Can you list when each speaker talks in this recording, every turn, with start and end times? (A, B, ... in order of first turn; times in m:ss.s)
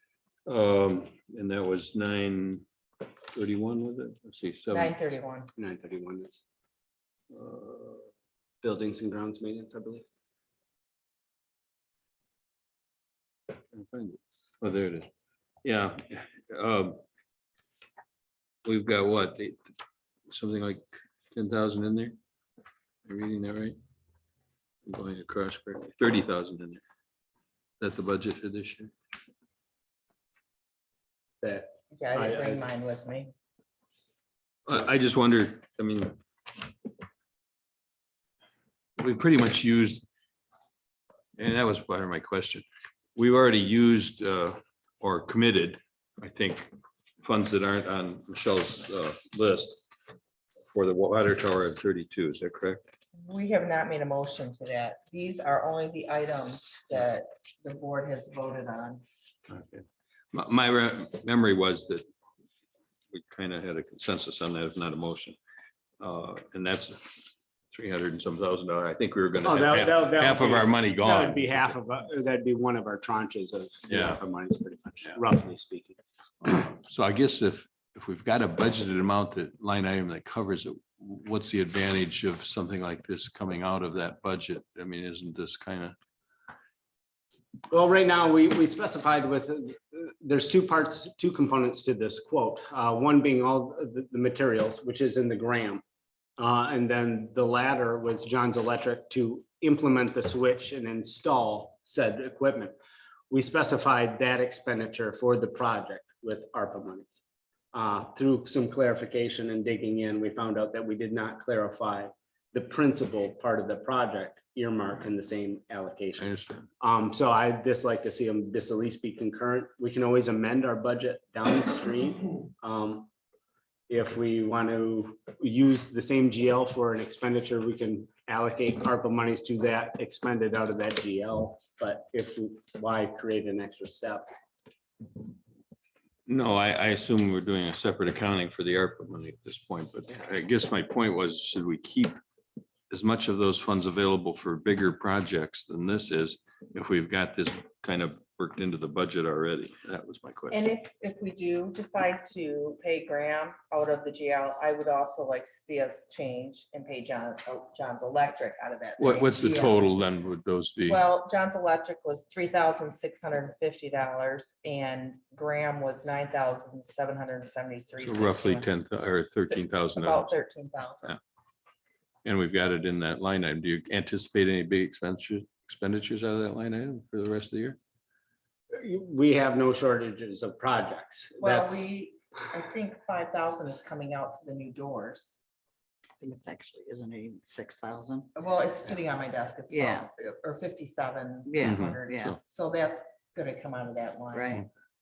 0:00.5-0:02.6 A
0:03.3-0:05.0 A
0:04.7-0:05.5 B
0:05.6-0:06.4 C
0:07.3-0:08.1 A
0:08.6-0:10.1 C
0:13.7-0:15.1 A
0:15.6-0:17.0 A
0:18.6-0:19.6 A
0:20.3-0:22.2 A
0:23.0-0:23.8 A
0:24.9-0:26.8 A
0:27.8-0:28.9 A
0:31.4-0:32.6 C
0:31.9-0:33.3 B
0:34.7-0:36.2 A
0:39.0-0:40.0 A
0:41.4-0:42.6 A
0:43.2-0:49.8 A
0:50.7-0:52.8 A
0:53.2-0:59.0 B
0:59.5-1:02.0 A
1:03.1-1:05.4 A
1:06.0-1:11.6 A
1:09.4-1:16.0 C
1:13.9-1:14.2 A
1:16.4-1:26.0 A
1:27.7-1:35.8 C
1:36.4-1:42.8 C
1:43.3-1:47.2 C
1:47.7-2:03.1 C
1:56.2-1:56.7 A
2:03.9-2:14.3 C
2:16.3-2:22.2 A
2:22.9-2:30.6 A
2:30.5-2:39.8 B
2:39.0-2:41.0 A
2:40.9-2:48.7 B
2:48.0-2:50.4 A
2:49.9-2:51.2 B
2:52.2-2:57.8 A
2:58.8-3:01.9 C
3:01.4-3:05.4 B
3:06.2-3:08.3 D
3:08.4-3:14.6 B
3:09.7-3:10.1 D
3:11.5-3:12.4 D
3:11.6-3:12.0 A
3:14.3-3:14.7 D